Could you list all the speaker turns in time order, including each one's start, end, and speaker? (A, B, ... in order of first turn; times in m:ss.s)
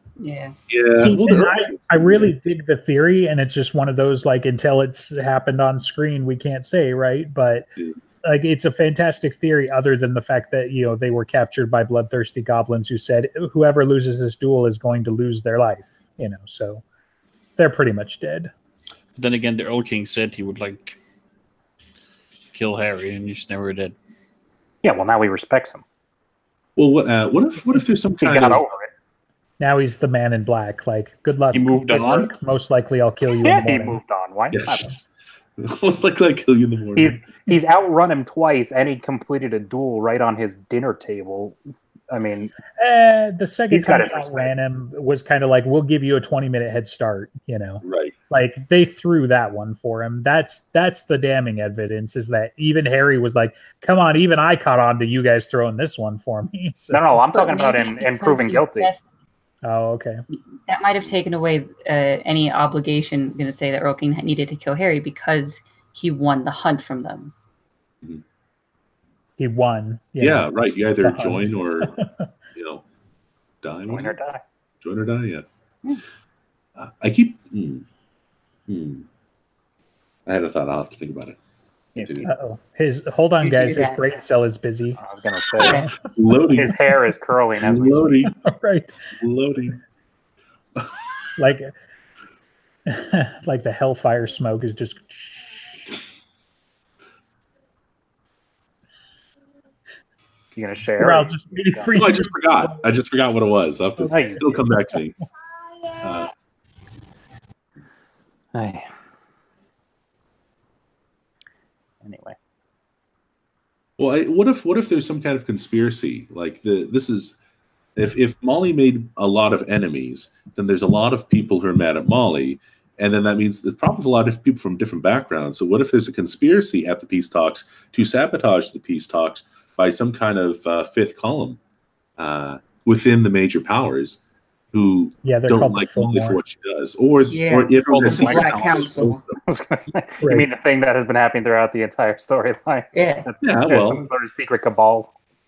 0:00.2-0:00.5 A
0:00.7-0:02.3 B
0:01.0-0:07.7 C
0:08.2-0:16.8 C
0:17.6-0:18.5 C
0:19.2-0:21.0 D
0:22.5-0:24.0 D
0:24.8-0:25.8 E
0:26.8-0:28.6 B
0:28.2-0:28.9 E
0:29.6-0:34.0 C
0:31.5-0:32.3 D
0:33.4-0:34.9 E
0:34.5-0:35.0 B
0:35.6-0:37.2 B
0:37.0-0:41.6 E
0:42.1-0:42.5 E
0:42.8-0:57.2 C
0:43.7-0:44.5 E
0:47.8-0:48.1 B
0:56.9-0:58.9 E
0:57.3-0:59.0 A
0:59.6-1:00.2 C
1:00.7-1:07.3 A
1:09.4-1:10.5 C
1:10.2-1:12.0 B
1:11.0-1:12.3 C
1:12.5-1:12.8 B
1:13.6-1:14.2 B
1:13.9-1:14.4 E
1:14.8-1:15.4 B
1:16.8-1:17.8 B
1:18.7-1:19.0 B
1:20.2-1:21.4 B
1:22.0-1:22.3 E
1:22.0-1:22.3 B
1:22.2-1:25.0 C
1:23.4-1:24.0 A
1:25.0-1:25.9 E
1:25.6-1:26.8 B
1:25.7-1:25.9 C
1:26.5-1:28.3 E
1:27.6-1:28.3 B
1:28.4-1:28.9 C
1:29.2-1:29.8 B
1:31.4-1:31.7 C
1:32.8-1:35.4 C
1:40.5-1:41.9 E
1:41.0-1:42.8 C
1:41.9-1:45.2 B
1:44.0-1:44.6 E
1:46.0-1:46.3 B
1:48.5-1:48.8 E
1:52.0-1:52.4 E
1:54.0-1:57.3 B
1:58.0-2:11.6 B
2:12.2-2:14.2 B
2:14.7-2:19.4 B
2:15.2-2:16.4 C
2:17.3-2:19.2 A
2:17.8-2:18.9 D
2:19.4-2:25.1 E
2:20.2-2:20.5 C
2:22.9-2:23.3 A
2:23.4-2:24.0 B